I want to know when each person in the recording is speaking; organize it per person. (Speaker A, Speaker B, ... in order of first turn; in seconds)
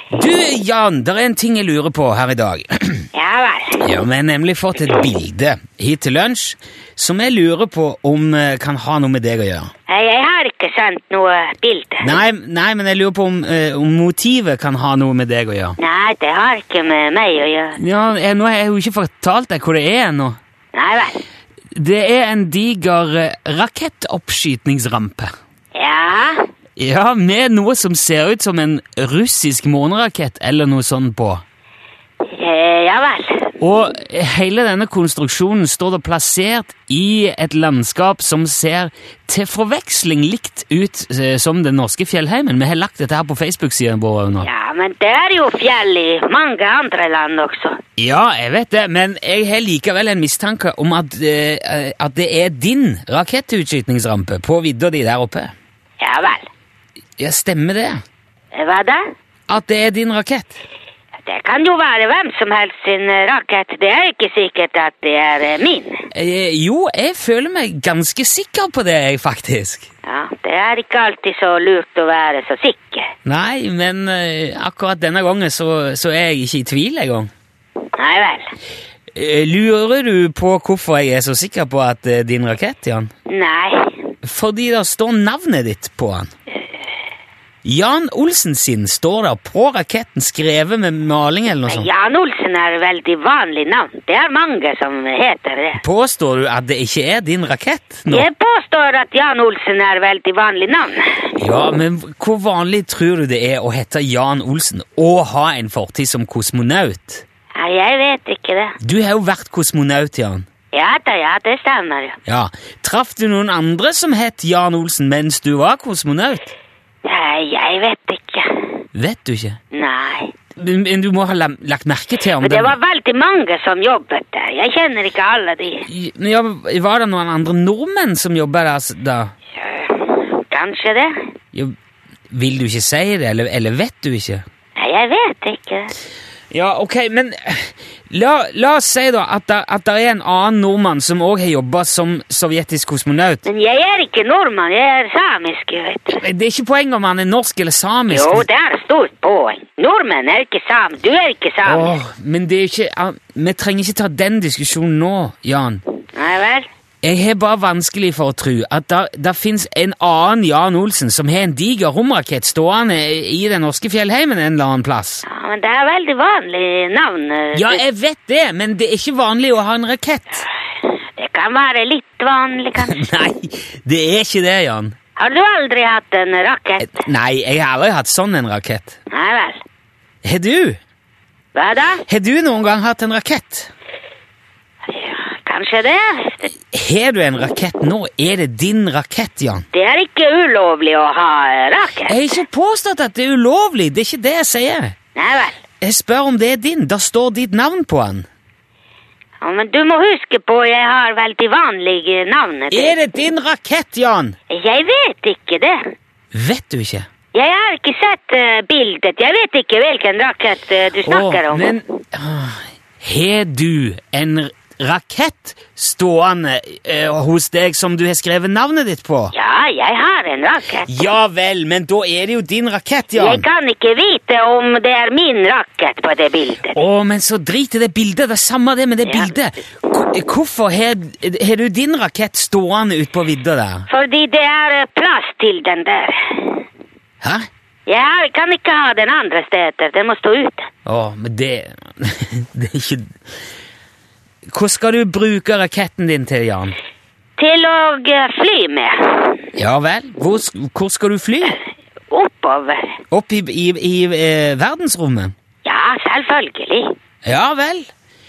Speaker A: 0.1-3.1, 3.8-9.7, 12.0-15.8, 17.8-20.4, 21.7-25.3, 26.8-31.4, 33.6-44.5, 48.0-55.5, 57.2-58.0, 59.5-60.5, 66.1-69.9, 73.2-77.3, 79.1-83.1, 84.2-86.3, 87.6-91.9, 95.8-98.3, 101.4-107.2, 108.8-110.4, 112.2-116.5, 118.9-119.6, 120.5-122.8, 125.8-129.3, 132.3-134.4, 136.5-143.4, 146.1-148.4, 151.6-155.8, 157.0-165.2, 167.5-170.4, 172.8-174.9, 176.8-178.9, 180.2-180.8, 182.1-183.7, 186.7-189.6, 192.1-194.9, 195.8-198.2, 202.7-204.3, 206.3-207.1, 211.0-219.3, 220.9-223.4, 226.7-233.9, 237.2-237.5, 240.8-243.1, 244.5-246.7, 249.6-251.6, 253.1-255.3, 257.2-257.9
Speaker B: 3.1-3.9, 9.9-12.2, 15.8-17.8, 20.7-21.2, 25.7-26.4, 32.3-33.6, 44.4-47.8, 56.0-56.5, 58.5-59.0, 61.2-66.1, 70.0-73.1, 78.0-78.5, 83.3-83.9, 91.7-95.8, 98.1-101.3, 107.5-108.8, 110.7-112.2, 117.0-118.6, 119.7-120.3, 122.4-125.9, 129.6-131.2, 134.8-135.9, 143.4-146.2, 148.1-151.9, 156.1-156.7, 165.2-167.8, 170.8-173.1, 175.2-176.9, 179.1-179.6, 181.5-182.0, 184.9-186.5, 189.7-192.4, 195.2-195.6, 199.4-202.9, 204.5-205.8, 207.3-211.7, 219.3-220.9, 223.1-226.8, 229.0-229.3, 233.9-236.6, 237.9-240.7, 247.4-249.5, 252.1-252.9, 255.6-256.9